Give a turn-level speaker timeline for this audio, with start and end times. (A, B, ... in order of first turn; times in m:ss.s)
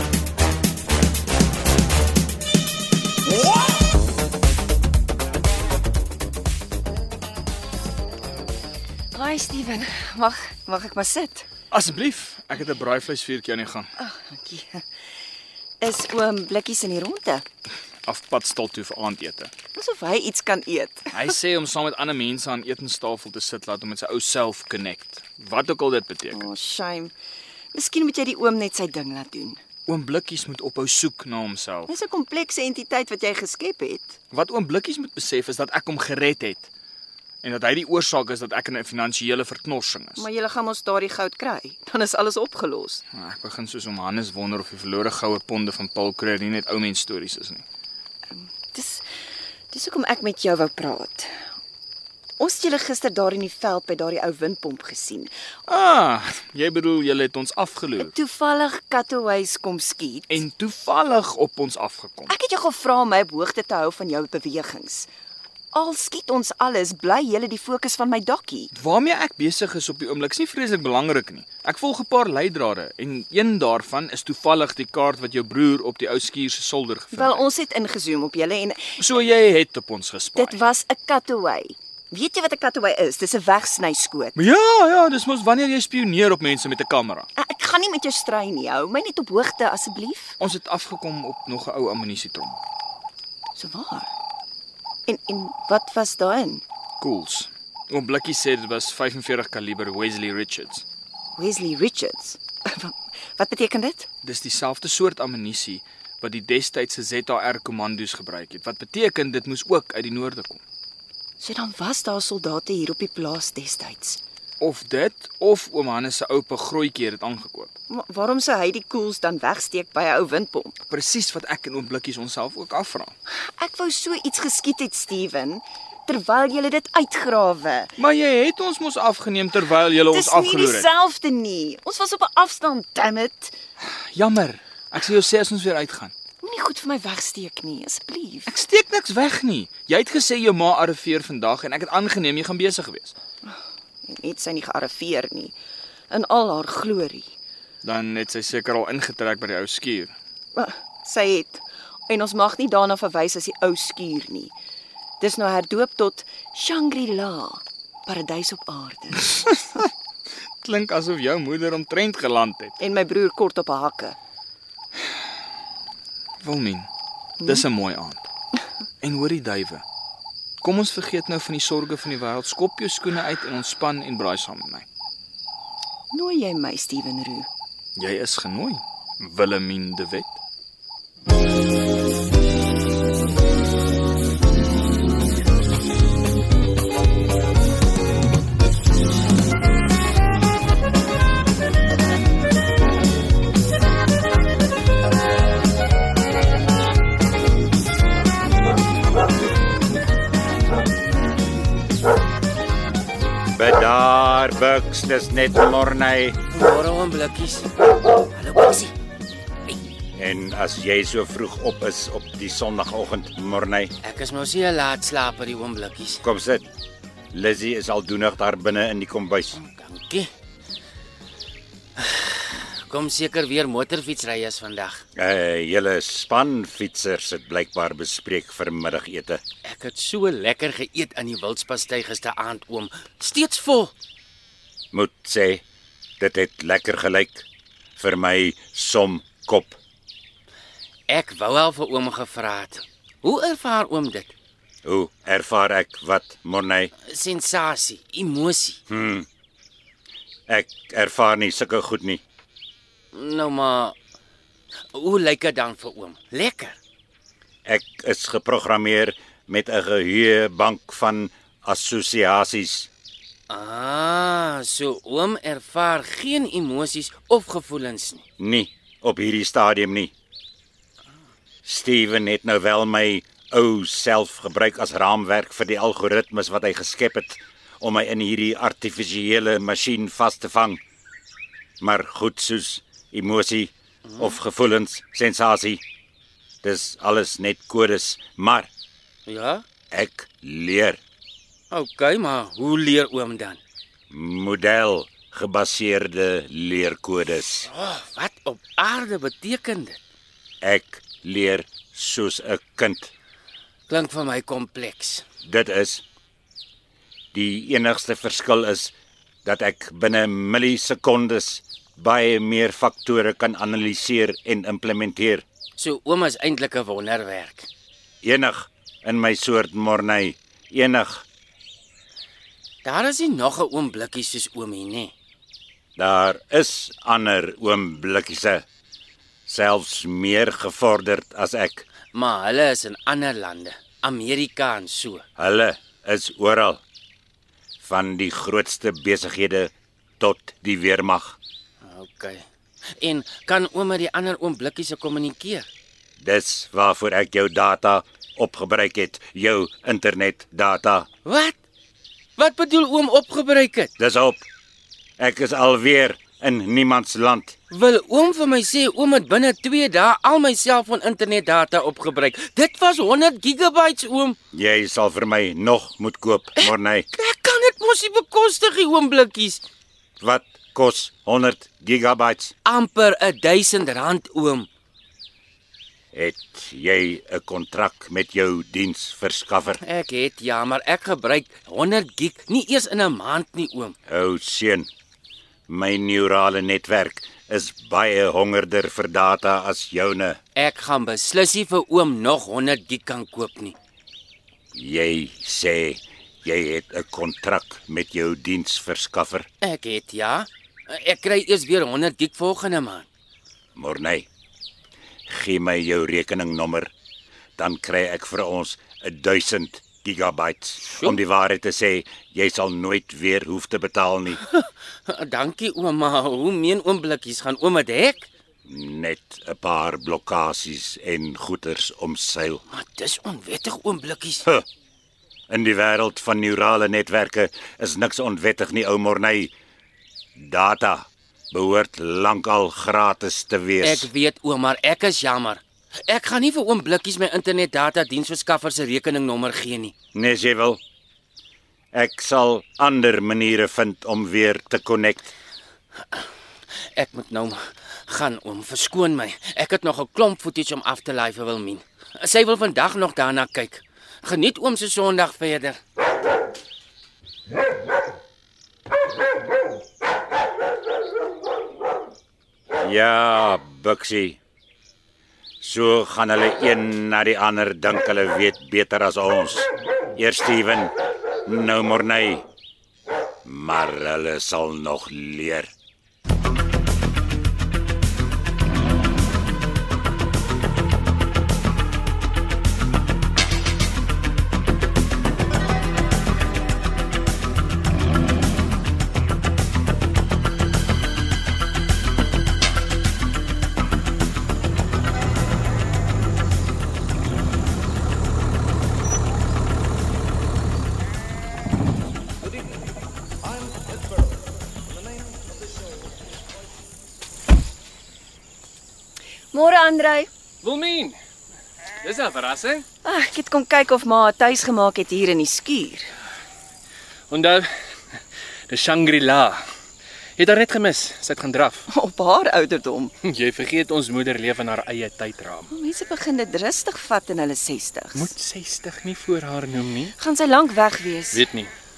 0:09.1-0:11.5 A
0:11.7-0:13.9 B
0:14.0-0:14.8 A
0:15.8-0:17.4 A
0:18.0-0:19.5 B
0:19.7-0:21.1 A
0:21.1-0:26.4 B
0:26.3-0:27.1 A
0:27.7-0:29.6 A
0:29.9-0:31.9 B
0:31.9-0:34.1 A
0:34.3-0:36.7 B
0:37.4-0:40.3 B
0:40.2-0:43.0 A
0:43.1-0:47.6 B
0:48.3-0:49.0 A
0:49.7-0:51.4 A
0:52.4-0:55.3 A
0:55.7-0:58.1 B
0:58.1-1:00.2 A
1:00.3-1:02.3 B
1:02.3-1:05.1 A
1:05.7-1:08.7 A
1:08.7-1:17.4 B
1:17.2-1:19.0 A
1:19.0-1:20.6 B
1:20.4-1:24.3 A
1:24.4-1:27.3 B
1:27.4-1:30.3 A
1:30.4-1:32.6 B
1:33.6-1:34.1 A
1:35.1-1:36.6 A
1:37.0-1:40.8 B
1:41.4-1:44.1 A
1:44.2-1:50.6 B
1:51.4-1:54.2 A
1:54.6-1:57.7 B
1:57.9-2:00.7 A
2:00.9-2:03.1 B
2:03.6-2:07.9 A
2:08.0-2:10.9 B
2:10.1-2:13.5 A
2:14.1-2:16.1 B
2:16.4-2:18.5 A
2:18.5-2:23.1 B
2:23.4-2:25.5 A
2:26.1-2:27.3 A
2:27.8-2:30.1 B
2:30.6-2:34.5 A
2:35.2-2:39.5 A
2:40.6-2:42.7 B
2:42.8-2:44.2 A
2:46.4-2:46.9 B
2:47.4-2:48.2 B
2:49.0-2:49.8 B
2:50.6-2:54.8 B
2:56.1-2:57.5 A
2:58.0-3:00.4 B
3:23.6-3:26.4 C
3:26.5-3:27.7 D
3:28.3-3:28.9 D
3:30.2-3:33.9 C
3:34.0-3:36.2 D
3:36.2-3:36.7 C
3:37.3-3:39.6 C
3:39.5-3:40.3 D
3:42.0-3:45.0 D
3:45.2-3:49.4 C
3:49.6-3:53.9 D
3:54.9-3:55.6 C
3:56.2-3:57.4 C
3:58.0-3:59.8 C
4:01.1-4:04.3 D
4:04.8-4:06.9 C
4:07.0-4:08.8 D
4:08.9-4:09.3 C
4:10.5-4:12.2 C
4:13.1-4:13.9 D
4:14.9-4:16.8 D
4:17.6-4:22.9 C
4:23.5-4:28.2 D
4:28.4-4:30.1 C
4:31.6-4:40.8 C
4:41.8-4:45.8 C
4:44.1-4:44.4 D
4:46.6-4:48.7 C
4:49.3-4:49.6 D
4:49.9-4:51.0 C
4:51.7-4:53.6 D
4:54.1-4:57.7 C
4:57.6-5:00.0 D
5:00.6-5:03.1 C
5:03.9-5:05.2 D
5:05.4-5:06.0 C
5:07.3-5:08.9 C
5:09.4-5:15.4 C
5:15.8-5:17.7 D
5:18.2-5:21.2 C
5:22.8-5:25.1 D
5:26.0-5:28.6 C
5:29.5-5:31.8 C
5:32.1-5:35.2 D
5:35.4-5:36.8 C
5:37.8-5:41.4 C
5:41.8-5:42.4 D
5:43.0-5:45.7 D
5:46.2-5:51.1 C
5:51.2-5:51.5 D
5:52.4-5:53.9 D
5:54.0-5:54.4 C
5:55.2-5:57.6 C
5:57.7-6:04.4 D
6:04.5-6:07.0 C
6:06.6-6:09.6 D
6:10.2-6:12.5 C
6:12.6-6:14.7 D
6:16.1-6:19.8 C
6:19.7-6:24.0 D
6:24.1-6:24.9 C
6:25.7-6:30.4 C
6:30.6-6:33.7 D
6:34.7-6:39.5 C
6:39.6-6:43.1 D
6:43.7-6:44.3 C
6:45.3-6:46.9 C
6:47.6-6:54.4 C
6:50.8-6:51.2 D
6:54.4-6:58.3 D
6:58.6-7:02.6 C
7:02.7-7:04.5 D
7:05.5-7:09.5 C
7:10.4-7:14.1 C
7:13.8-7:19.9 D
7:20.1-7:20.8 C
7:21.9-7:25.3 C
7:27.0-7:35.8 D
7:42.8-7:44.4 C
7:45.6-7:50.9 C
7:51.4-7:52.4 C
7:53.4-7:55.7 C
8:29.5-8:30.3 A
8:30.6-8:31.2 E
8:32.0-8:32.8 E
8:33.0-8:36.1 A
8:37.3-8:39.6 E
8:40.4-8:41.8 E
8:41.9-8:43.1 A
8:43.2-8:45.7 E
8:45.7-8:48.3 A
8:48.2-8:50.1 E
8:50.2-8:51.4 A
8:51.3-8:51.7 E